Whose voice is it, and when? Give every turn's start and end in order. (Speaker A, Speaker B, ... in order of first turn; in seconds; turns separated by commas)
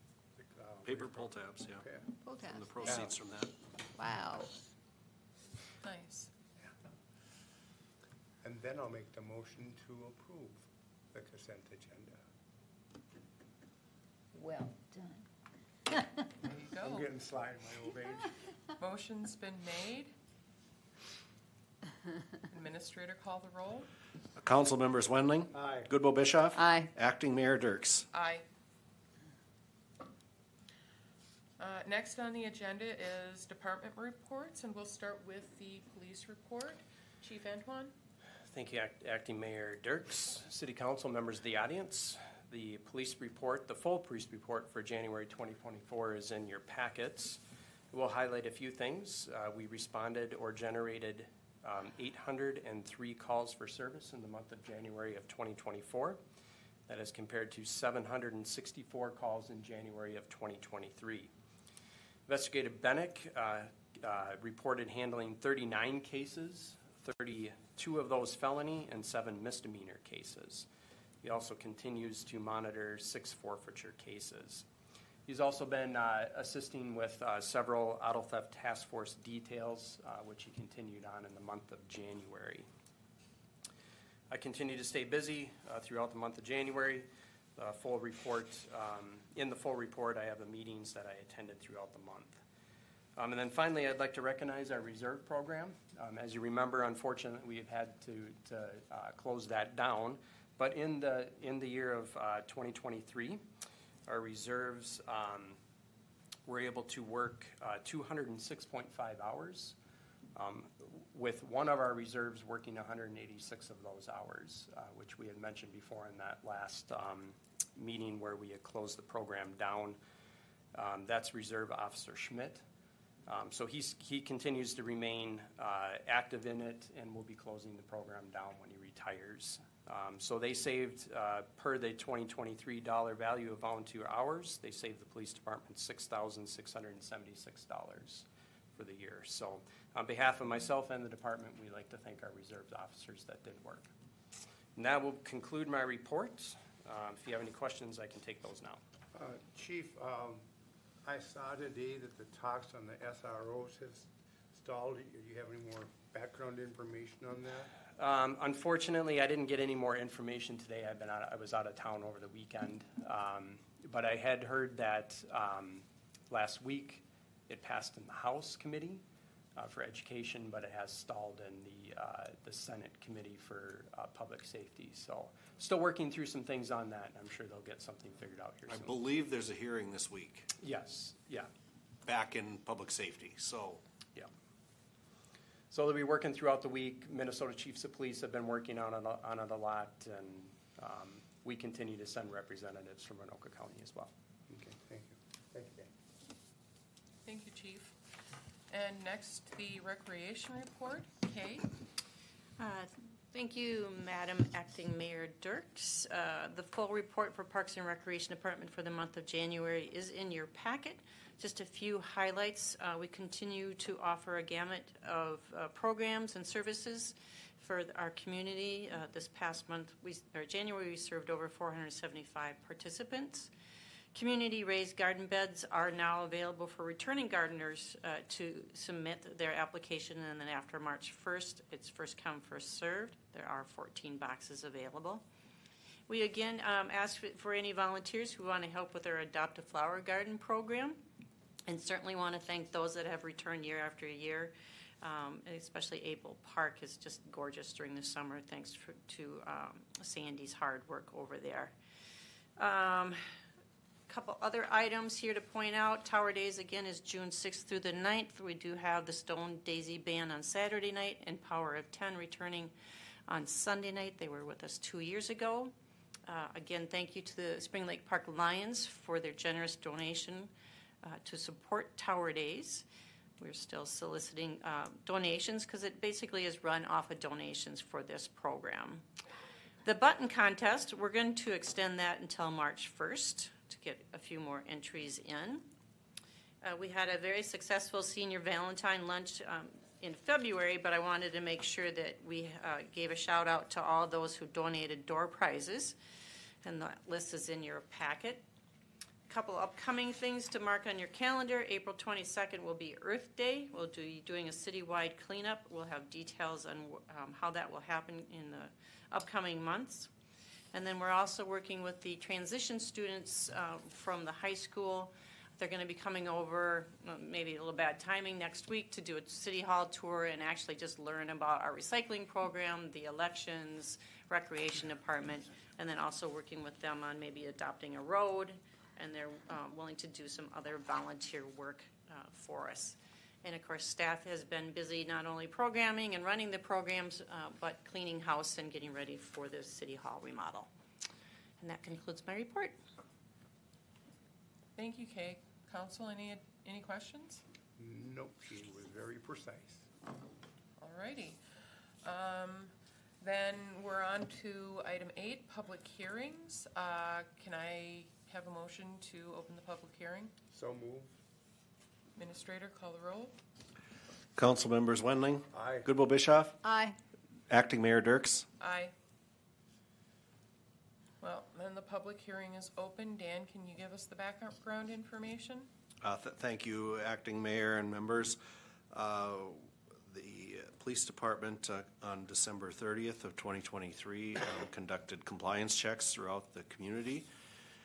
Speaker A: 0.4-2.0, Speaker B: 0.8-1.9, Speaker C: 2.2-3.1, Speaker B: 2.4-3.5, Speaker C: 4.0-4.5, Speaker D: 5.8-6.3, Speaker A: 8.4-12.2, Speaker C: 14.3-15.2, Speaker D: 16.4-17.1, Speaker A: 16.8-18.4, Speaker D: 18.8-20.1, Speaker D: 22.5-23.9, Speaker B: 24.4-28.1, Speaker A: 25.5-25.9, Speaker C: 26.6-26.9, Speaker D: 28.1-28.4, Speaker D: 31.6-37.9, Speaker E: 38.5-56.2, Speaker E: 56.9-61.3, Speaker E: 62.3-70.7, Speaker E: 71.2-74.7, Speaker E: 75.2-82.7, Speaker E: 84.3-92.4, Speaker E: 93.2-103.5, Speaker E: 104.0-105.6, Speaker E: 106.5-109.8, Speaker E: 110.3-120.0, Speaker E: 120.7-122.6, Speaker E: 123.2-143.9, Speaker E: 144.7-148.8, Speaker A: 149.1-150.5, Speaker A: 151.0-157.7, Speaker E: 157.9-169.0, Speaker E: 169.6-178.9, Speaker B: 178.7-180.5, Speaker E: 180.6-181.5, Speaker B: 182.0-183.8, Speaker E: 185.7-194.1, Speaker A: 194.5-195.9, Speaker D: 197.2-198.0, Speaker D: 198.7-201.7, Speaker F: 202.6-223.5, Speaker F: 224.1-235.2, Speaker F: 236.1-241.0, Speaker F: 241.7-251.7, Speaker F: 252.6-253.2, Speaker F: 254.1-262.7, Speaker F: 263.3-265.7, Speaker F: 266.3-270.5, Speaker F: 271.0-272.8, Speaker F: 273.4-279.0, Speaker F: 279.8-285.6, Speaker F: 286.6-295.9, Speaker F: 296.6-298.4, Speaker F: 299.3-310.1, Speaker F: 310.7-340.7, Speaker F: 341.6-342.8, Speaker D: 344.8-347.4, Speaker A: 347.8-349.9, Speaker D: 350.8-351.4, Speaker D: 352.0-360.3, Speaker A: 360.5-361.1, Speaker D: 362.1-363.4, Speaker B: 364.4-366.6, Speaker A: 365.5-365.9, Speaker C: 366.6-367.0, Speaker B: 367.5-368.4, Speaker D: 368.6-368.9, Speaker D: 371.2-375.7, Speaker B: 376.0-378.4, Speaker B: 378.9-387.3